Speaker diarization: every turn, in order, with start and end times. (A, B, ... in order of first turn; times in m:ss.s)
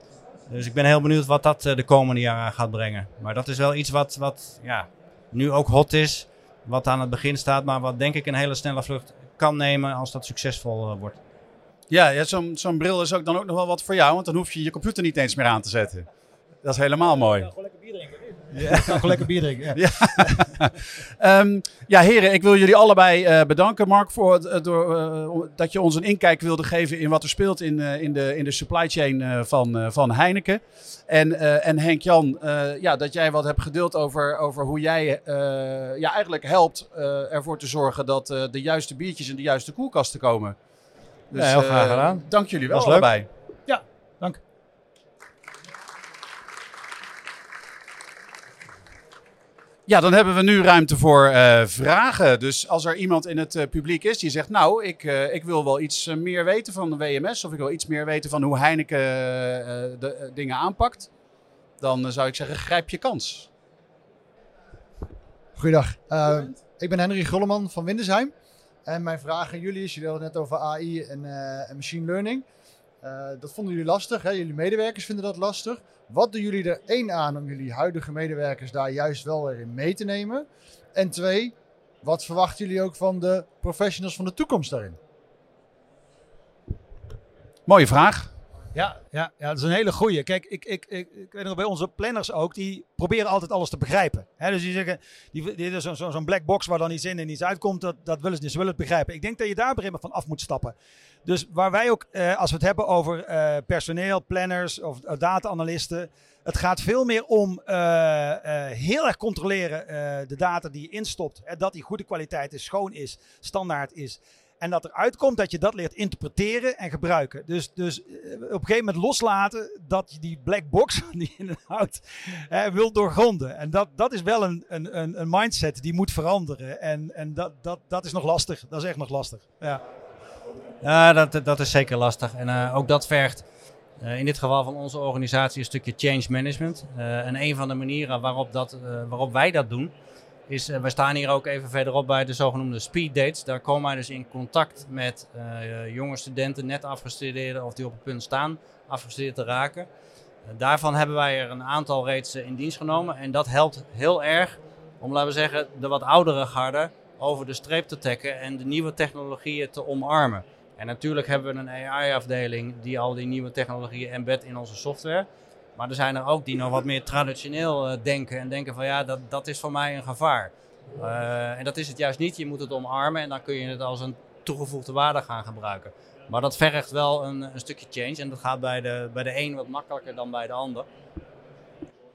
0:00.5-0:11.2 A
0:11.9-0:16.1 B
0:16.6-0:17.5 B
0:17.5-0:20.7 C
0:18.6-0:19.2 B
0:19.8-0:40.6 B
0:41.3-0:43.3 B
0:41.3-0:43.1 A
0:43.7-0:44.4 C
0:49.9-1:01.1 B
1:01.8-1:03.5 B
1:05.6-1:08.3 D
1:08.9-1:12.5 D
1:13.0-1:25.0 D
1:27.7-1:28.3 B
1:28.8-2:09.8 C
2:10.8-2:13.5 A
2:14.0-2:19.9 A
2:20.5-2:29.9 A
2:30.4-3:00.9 A